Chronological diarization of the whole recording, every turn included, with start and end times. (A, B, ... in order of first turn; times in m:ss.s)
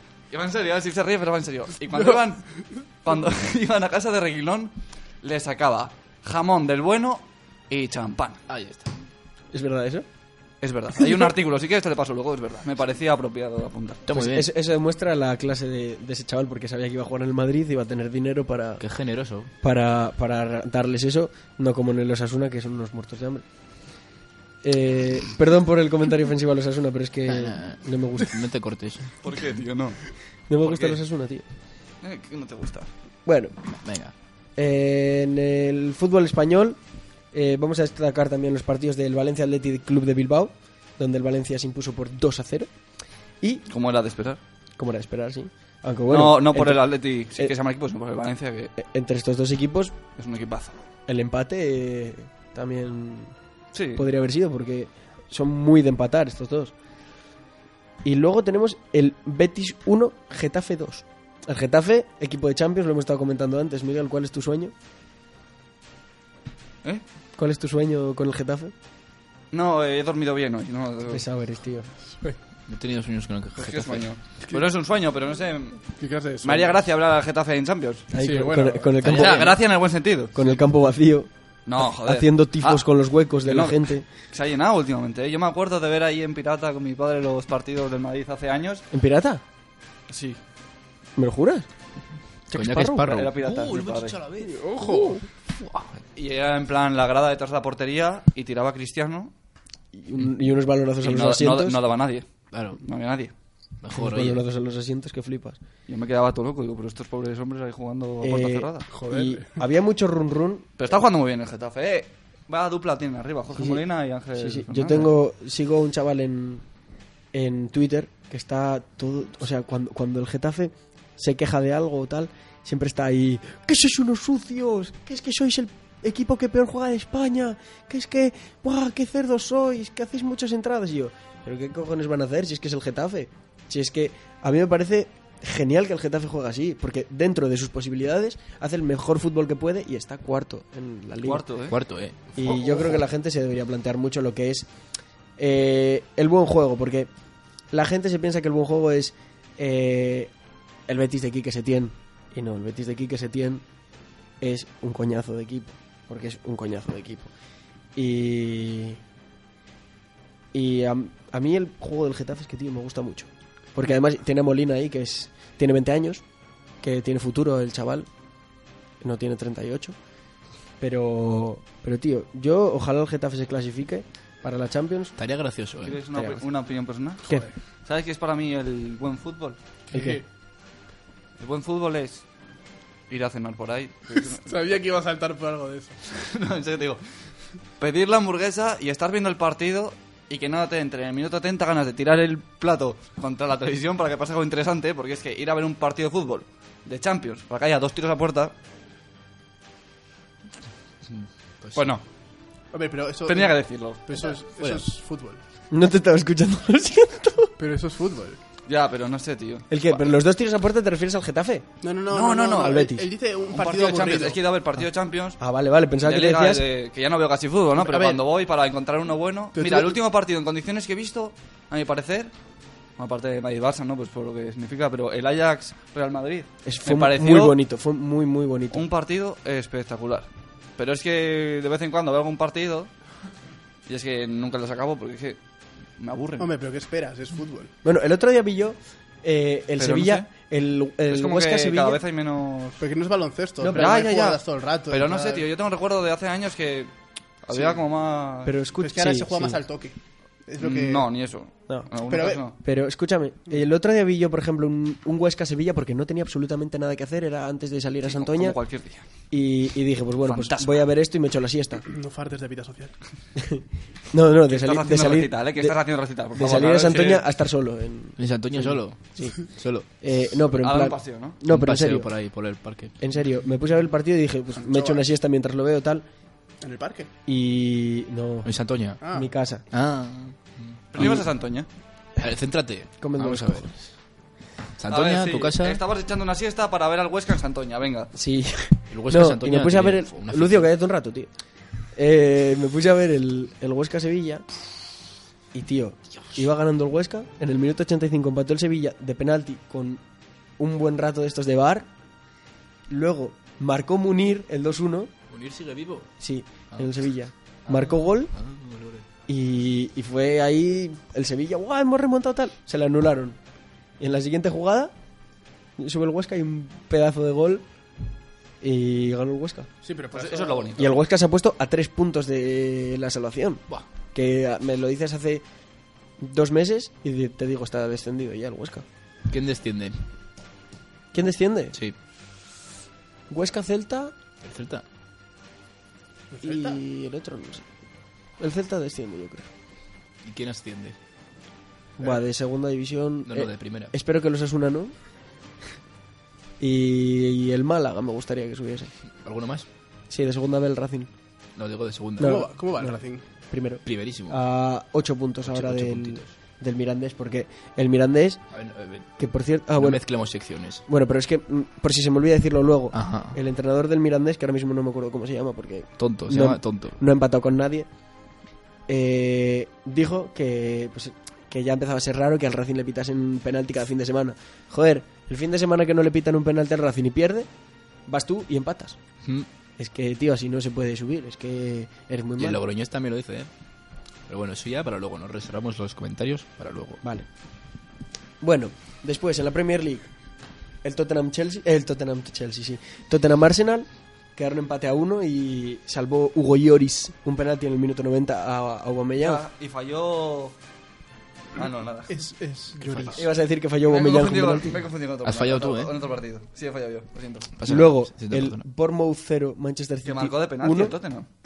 0:00.3-0:08.4 A
0:08.5-0:08.9 B
0:09.5-0:10.0 C
0:10.6-0:14.0 A
0:14.0-0:14.5 B
0:14.1-0:18.8 C
0:18.8-0:19.5 B
0:19.6-0:23.4 C
0:24.6-0:28.3 C
0:27.2-0:29.3 B
0:29.2-0:30.1 A
0:30.5-0:31.4 C
0:30.6-0:31.0 A
0:32.0-0:32.9 A
0:33.2-0:33.6 C
0:33.7-0:34.1 B
0:34.6-0:36.8 C
0:37.3-0:42.7 C
0:43.7-0:44.4 A
0:44.8-0:46.8 C
0:46.1-0:48.7 A
0:48.8-0:49.9 C
0:50.2-0:50.8 A
0:51.1-0:53.3 C
0:53.7-0:54.0 A
0:53.9-0:56.7 C
0:58.0-1:04.7 C
1:07.4-1:08.7 C
1:09.5-1:11.2 A
1:11.1-1:11.9 C
1:12.7-1:14.1 B
1:13.6-1:18.1 A
1:16.0-1:16.8 D
1:18.1-1:19.6 C
1:18.1-1:18.9 D
1:19.0-1:19.6 B
1:19.0-1:20.6 A
1:20.3-1:24.0 C
1:21.6-1:22.9 A
1:23.4-1:28.8 A
1:28.9-1:29.4 C
1:30.1-1:30.4 A
1:31.2-1:31.7 C
1:32.5-1:33.3 C
1:32.5-1:36.0 B
1:33.1-1:34.2 A
1:34.4-1:35.2 D
1:36.1-1:39.3 A
1:39.9-1:41.8 C
1:41.0-1:43.3 A
1:42.5-1:42.8 B
1:43.8-1:44.4 B
1:43.9-1:45.6 C
1:45.9-1:48.9 A
1:48.2-1:50.6 C
1:48.9-1:49.5 D
1:50.8-1:55.1 A
1:53.5-1:53.8 C
1:54.3-1:56.6 C
1:57.3-2:21.4 C
2:21.2-2:21.8 A
2:21.7-2:23.0 B
2:22.4-2:24.7 C
2:25.4-2:27.1 C
2:27.7-2:30.3 C
2:30.9-2:33.6 C
2:34.4-2:37.3 C
2:38.0-2:39.0 C
2:40.5-2:46.2 C
2:46.8-2:48.1 C
2:49.0-2:50.0 C
2:50.8-2:55.1 C
2:55.2-2:56.0 B
2:55.8-2:59.6 A
2:56.2-2:56.4 C
2:59.9-3:00.2 D
2:59.9-3:00.2 C
3:01.4-3:02.2 A
3:03.1-3:04.4 A
3:04.2-3:06.0 D
3:06.1-3:07.0 A
3:07.8-3:18.5 A
3:21.0-3:21.9 B
3:21.8-3:22.0 A
3:22.7-3:25.4 D
3:23.2-3:24.0 A
3:25.7-3:27.5 C
3:27.6-3:28.4 D
3:28.7-3:30.2 A
3:29.7-3:31.6 C
3:31.8-3:34.4 D
3:32.1-3:32.8 A
3:32.6-3:33.0 C
3:33.5-3:35.4 A
3:35.4-3:36.6 C
3:36.0-3:42.3 A
3:37.8-3:38.2 D
3:39.6-3:40.0 D
3:43.0-3:47.6 A
3:46.6-3:48.9 C
3:48.7-3:52.9 A
3:53.9-3:55.4 A
3:56.0-3:56.5 A
3:56.4-3:57.7 D
3:57.8-4:02.0 C
3:59.8-4:00.3 A
4:01.1-4:02.8 A
4:02.8-4:05.4 D
4:03.6-4:04.0 C
4:03.7-4:06.9 A
4:07.4-4:08.5 A
4:07.5-4:07.8 D
4:08.4-4:09.6 C
4:08.8-4:10.0 D
4:10.5-4:11.0 D
4:10.6-4:12.5 A
4:12.1-4:12.4 D
4:12.6-4:18.6 C
4:18.0-4:19.1 A
4:19.3-4:21.8 C
4:20.2-4:20.8 A
4:21.9-4:22.9 D
4:23.4-4:25.8 C
4:24.5-4:27.2 A
4:26.3-4:32.1 C
4:28.2-4:29.9 B
4:30.6-4:31.4 A
4:31.5-4:32.9 B
4:33.0-4:36.0 C
4:34.5-4:35.0 D
4:36.6-4:37.1 D
4:37.2-4:38.5 C
4:38.4-4:39.0 B
4:39.0-4:39.3 D
4:39.1-4:39.6 C
4:39.7-4:41.2 B
4:40.9-4:41.7 A
4:41.0-4:41.2 C
4:42.2-4:43.7 B
4:43.0-4:43.9 C
4:44.8-4:45.8 B
4:44.9-4:48.1 A
4:48.1-4:51.3 C
4:48.9-4:50.7 B
4:51.9-4:54.4 C
4:55.5-5:00.0 C
5:00.6-5:01.9 C
5:02.9-5:05.1 C
5:05.3-5:06.1 B
5:06.2-5:08.3 C
5:07.6-5:09.1 B
5:09.3-5:13.4 C
5:14.0-5:14.9 C
5:15.8-5:17.6 C
5:18.6-5:19.7 C
5:19.8-5:20.8 D
5:20.1-5:20.9 A
5:20.8-5:25.4 C
5:26.2-5:28.8 C
5:29.3-5:30.0 B
5:31.1-5:31.8 C
5:33.3-5:34.1 C
5:34.4-5:34.8 B
5:36.3-5:36.8 D
5:36.4-5:37.6 C
5:38.4-5:39.5 C
5:40.2-5:41.0 B
5:42.0-5:44.9 C
5:43.2-5:43.9 B
5:46.6-5:48.9 C
5:49.2-5:49.7 B
5:50.1-5:51.1 C
5:51.6-5:52.4 B
5:52.2-5:53.0 C
5:52.2-5:53.2 D
5:53.5-5:58.4 C
5:53.8-5:54.4 B
5:55.4-5:56.3 B
5:58.5-5:59.1 B
5:59.2-6:00.0 C
5:59.8-6:00.8 B
6:00.9-6:07.9 C
6:02.9-6:03.4 B
6:06.0-6:07.0 B
6:08.9-6:17.5 C
6:18.1-6:19.0 C
6:19.8-6:22.6 C
6:22.4-6:23.5 B
6:24.3-6:27.0 B
6:28.4-6:30.1 C
6:30.8-6:39.4 C
6:39.2-6:40.5 A
6:41.5-6:42.2 A
6:42.1-6:43.3 D
6:43.1-6:44.8 C
6:43.8-6:47.5 A
6:45.2-6:45.9 B
6:47.6-6:48.6 B
6:47.6-6:51.0 C
6:50.0-6:51.3 A